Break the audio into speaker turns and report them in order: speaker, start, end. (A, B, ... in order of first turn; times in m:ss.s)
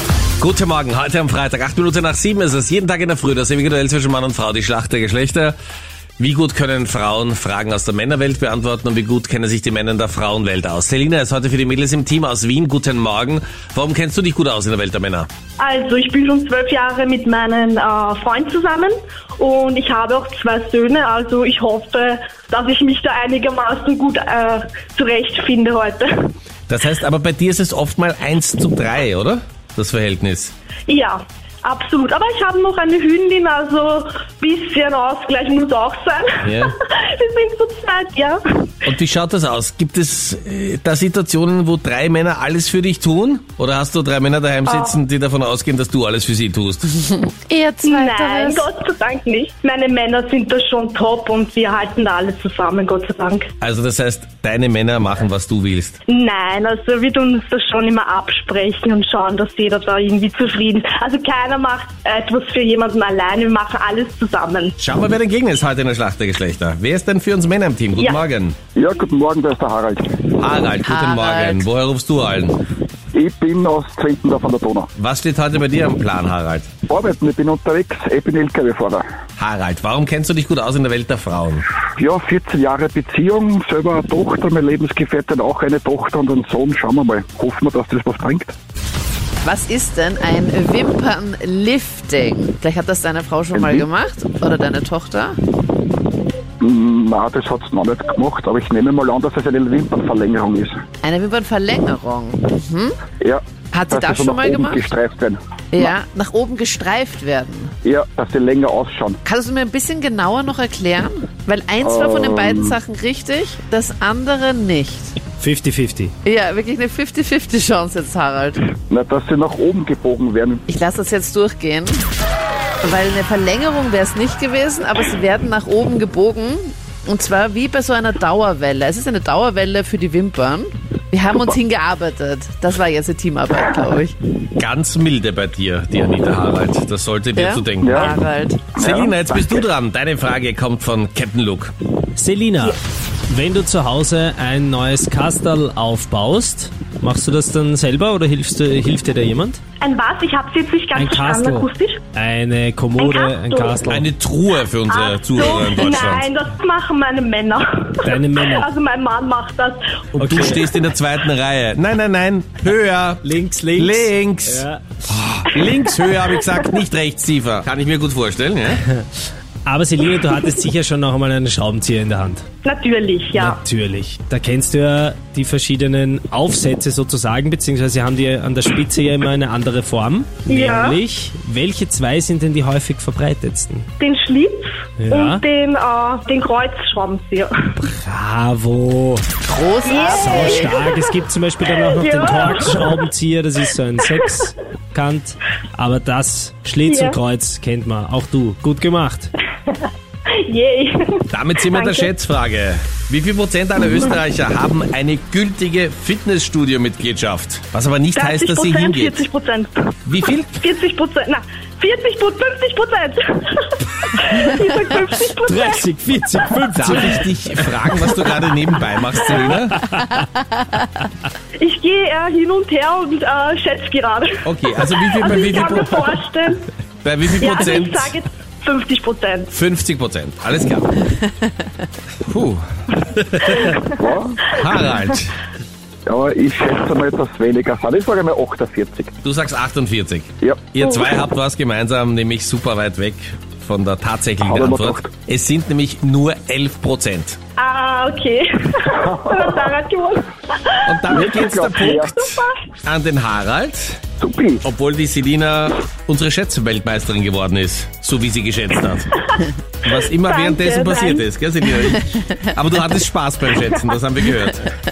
0:00.4-0:05.6 A
0:06.2-0:15.3 A
0:15.6-0:26.3 B
0:26.7-0:30.5 A
0:30.9-0:38.7 B
0:36.4-0:36.7 A
0:38.8-0:46.9 A
0:44.7-0:45.0 B
0:47.0-0:48.7 C
0:47.8-0:53.5 B
0:53.6-0:56.0 A
0:56.1-1:04.8 B
1:04.8-1:08.6 A
1:08.0-1:08.2 B
1:08.8-1:10.2 D
1:10.4-1:12.6 A
1:10.8-1:11.7 C
1:13.1-1:14.9 D
1:15.0-1:16.7 A
1:16.9-1:19.1 D
1:19.4-1:21.7 A
1:22.0-1:28.5 D
1:29.4-1:35.4 C
1:33.6-1:33.9 D
1:36.6-1:40.8 D
1:41.0-1:42.9 C
1:43.2-1:45.9 D
1:43.7-1:44.8 C
1:45.7-1:47.7 C
1:47.8-1:49.2 D
1:49.2-1:55.2 C
1:51.8-1:52.8 D
1:55.4-1:56.1 E
1:56.2-1:58.7 C
1:58.9-2:00.6 D
2:00.7-2:02.0 C
2:02.8-2:14.1 C
2:14.6-2:21.7 A
2:17.3-2:18.7 C
2:17.8-2:18.2 D
2:18.8-2:19.6 D
2:22.2-2:22.8 E
2:23.3-2:29.6 E
2:29.8-2:32.0 B
2:30.9-2:34.1 E
2:33.0-2:33.8 B
2:33.9-2:36.3 A
2:34.9-2:39.9 B
2:38.0-2:38.7 E
2:40.1-2:40.6 E
2:40.2-2:43.2 A
2:43.2-2:45.2 E
2:43.8-2:48.8 A
2:49.6-2:52.4 E
2:52.6-2:53.6 B
2:53.3-3:03.9 E
3:00.5-3:01.0 B
3:04.0-3:07.7 B
3:05.0-3:05.4 E
3:07.8-3:09.2 E
3:09.5-3:10.7 C
3:09.8-3:11.1 B
3:10.1-3:19.3 E
3:11.6-3:13.0 B
3:16.9-3:17.2 B
3:20.3-3:22.1 B
3:21.3-3:29.2 A
3:28.1-3:30.0 B
3:30.0-3:30.6 A
3:30.6-3:35.8 B
3:35.4-3:38.3 E
3:36.8-3:39.8 A
3:39.2-3:39.5 B
3:39.7-3:40.1 E
3:41.6-3:46.7 B
3:44.4-3:46.2 A
3:47.0-3:48.1 A
3:47.3-3:49.5 B
3:49.5-3:51.1 A
3:52.2-3:53.7 A
3:54.0-3:54.4 D
3:54.5-3:55.4 A
3:56.0-3:59.1 D
3:59.2-4:07.4 A
4:00.8-4:01.1 B
4:04.4-4:05.1 D
4:07.6-4:12.6 B
4:10.8-4:14.0 A
4:11.1-4:12.1 D
4:14.2-4:14.6 D
4:14.6-4:19.1 A
4:19.3-4:22.0 B
4:19.8-4:24.7 A
4:23.6-4:23.9 B